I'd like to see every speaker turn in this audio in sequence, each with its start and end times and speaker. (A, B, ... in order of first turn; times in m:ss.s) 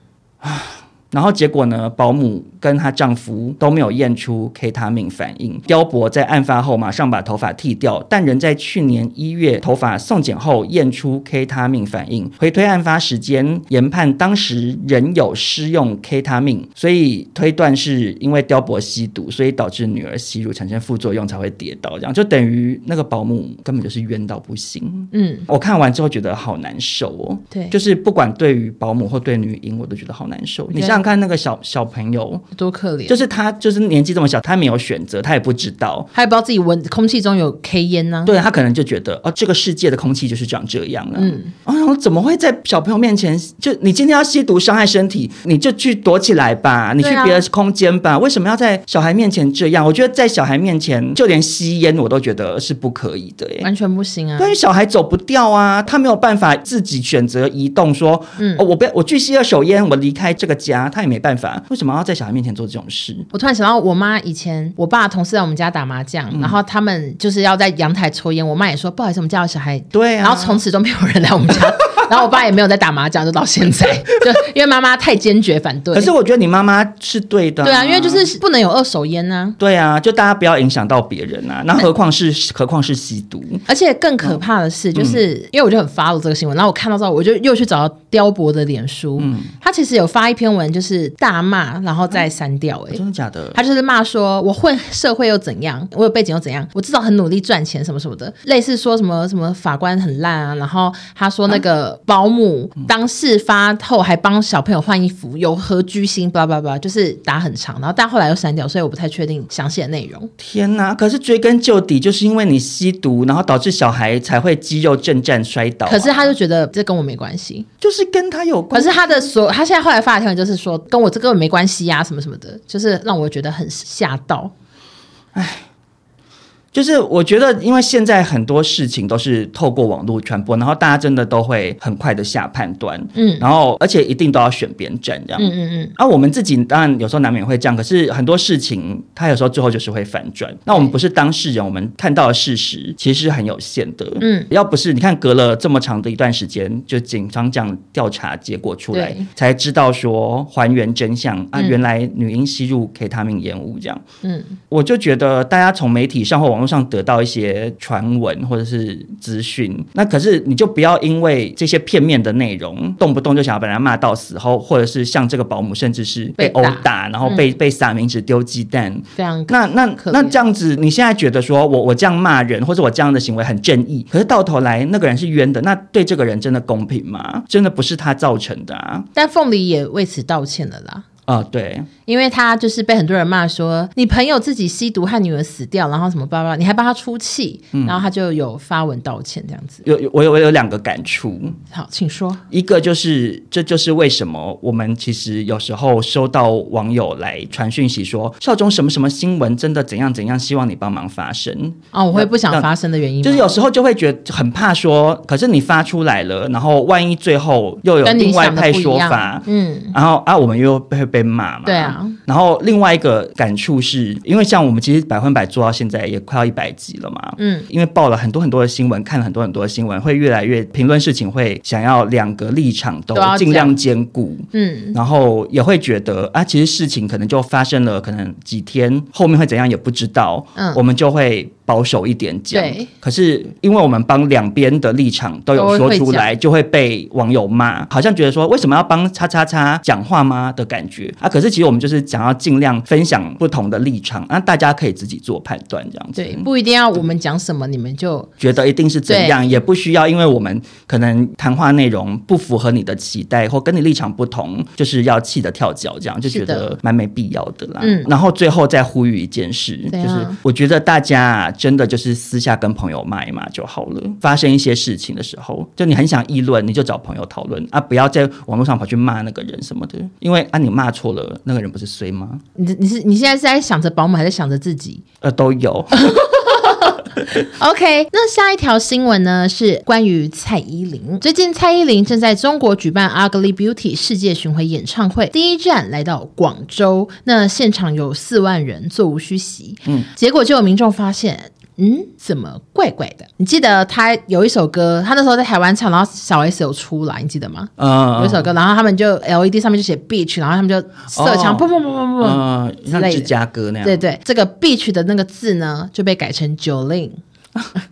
0:00.4-0:32.4 A
0:25.1-0:25.5 B
0:30.7-0:31.0 B
0:32.5-0:33.2 B
0:33.1-0:36.1 A
0:36.1-0:38.3 B
0:38.2-0:53.7 A
0:41.2-0:41.5 B
0:47.0-0:47.4 B
0:53.6-0:54.6 B
0:54.4-1:03.3 A
0:58.4-0:58.6 B
1:03.3-1:16.1 B
1:06.3-1:06.6 A
1:09.9-1:10.6 A
1:15.9-1:18.3 A
1:17.6-1:19.6 B
1:19.6-1:23.6 A
1:23.7-1:33.0 B
1:24.9-1:25.2 A
1:29.2-1:29.5 A
1:32.9-1:33.6 A
1:33.5-1:50.3 B
1:50.4-1:56.3 A
1:55.8-1:57.7 B
1:57.8-1:59.3 A
1:58.7-2:04.5 B
2:05.3-2:05.6 A
2:06.7-2:34.0 A
2:13.2-2:13.4 B
2:15.4-2:15.9 B
2:24.2-2:24.5 B
2:28.9-2:29.3 B
2:34.2-2:34.6 B
2:34.7-2:59.1 A
2:46.4-2:47.5 B
2:49.2-2:50.4 B
2:59.1-3:01.0 B
3:01.2-3:01.9 A
3:02.0-3:09.8 B
3:07.7-3:08.0 A
3:09.8-3:11.6 A
3:11.7-3:12.4 B
3:12.5-3:22.7 A
3:21.9-3:23.5 B
3:23.2-4:06.5 A
3:28.0-3:30.0 B
3:31.6-3:32.2 B
3:37.4-3:37.7 B
3:43.1-3:43.8 B
3:44.5-3:45.0 B
3:52.5-3:52.9 B
3:55.5-3:56.3 B
4:06.2-4:08.3 B
4:08.4-4:32.4 A
4:09.1-4:09.6 B
4:16.3-4:16.7 B
4:17.8-4:18.1 B
4:19.9-4:20.4 B
4:32.5-4:35.0 B
4:35.2-4:37.3 A
4:35.9-5:02.4 B
4:57.8-4:58.5 A
5:01.1-5:04.0 A
5:02.9-5:03.3 B
5:03.8-5:07.2 B